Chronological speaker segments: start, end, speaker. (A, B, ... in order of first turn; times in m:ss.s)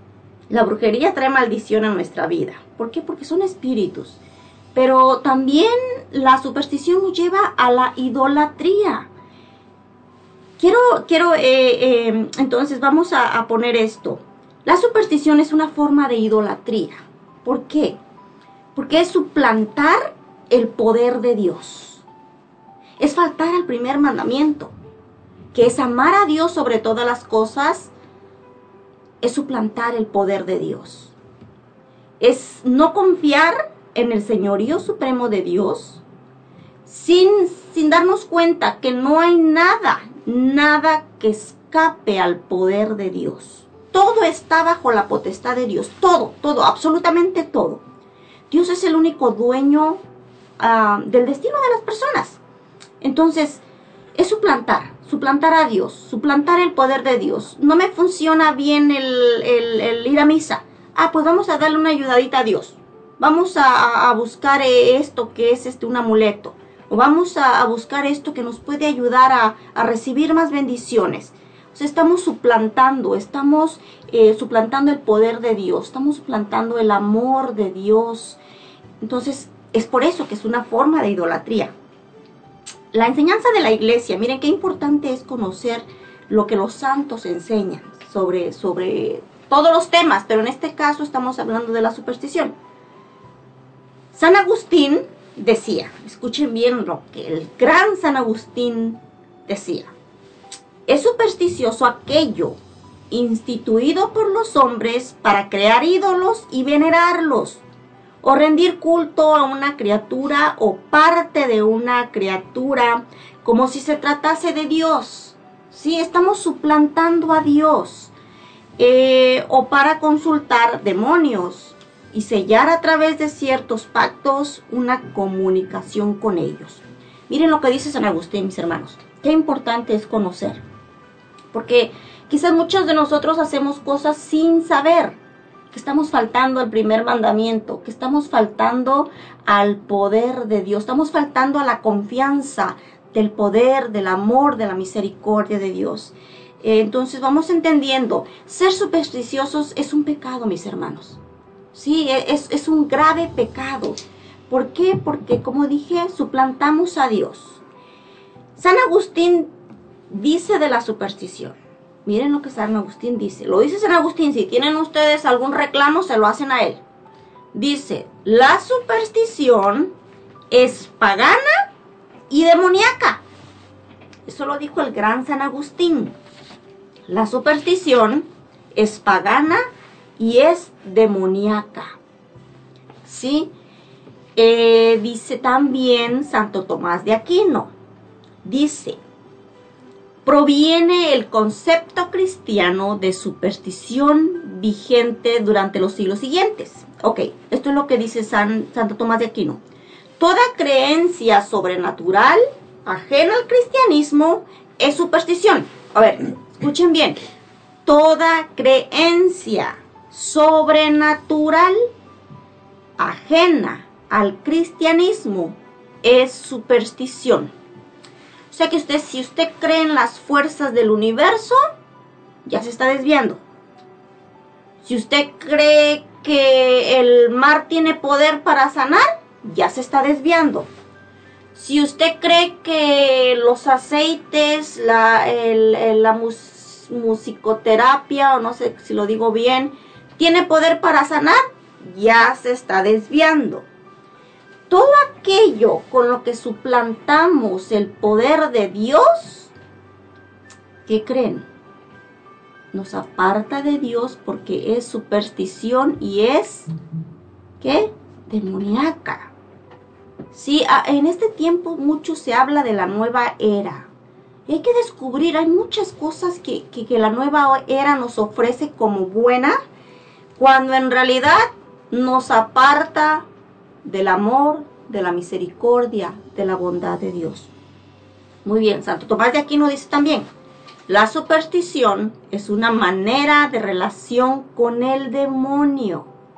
0:00.5-0:04.2 A
0:04.8-0:09.1 A
0:10.6-0:18.0 A
0:18.8-0:22.0 A
0:23.0-0:24.7 A
0:25.5-0:27.9 A
0:29.2-0:31.1 A
0:32.2-0:36.0 A
0:36.9-0:47.8 A
0:48.5-0:50.0 A
0:50.6-0:52.4 A
0:53.0-0:53.6 A
0:54.2-1:18.4 A
1:19.0-1:21.7 A
1:22.9-1:32.5 A
1:34.1-1:39.9 A
1:40.9-1:42.6 A
1:43.1-1:47.6 A
1:48.2-1:58.1 A
1:58.8-2:10.6 A
2:11.5-2:15.2 A
2:15.7-2:31.2 A
2:31.7-2:34.0 A
2:34.5-2:37.6 A
2:38.6-2:39.5 A
2:40.1-2:46.8 A
2:47.5-2:49.9 A
2:50.5-2:51.6 A
2:52.3-2:53.2 A
2:54.3-2:56.1 A
2:57.1-2:59.6 A
3:00.2-3:02.0 A
3:03.0-3:03.5 A
3:04.4-3:07.7 A
3:08.4-3:09.0 A
3:10.2-3:19.6 A
3:20.2-3:27.2 A
3:27.8-3:31.9 A
3:33.0-3:37.5 A
3:38.5-3:41.6 A
3:42.4-3:43.4 A
3:44.8-3:50.7 A
3:51.6-4:03.6 A
4:04.7-4:09.5 A
4:10.9-4:11.5 A
4:12.7-4:16.7 A
4:17.6-4:19.3 A
4:20.3-4:23.9 A
4:24.5-4:29.6 A
4:30.4-4:33.2 A
4:33.8-4:37.5 A
4:38.4-4:40.3 A
4:40.9-4:46.1 A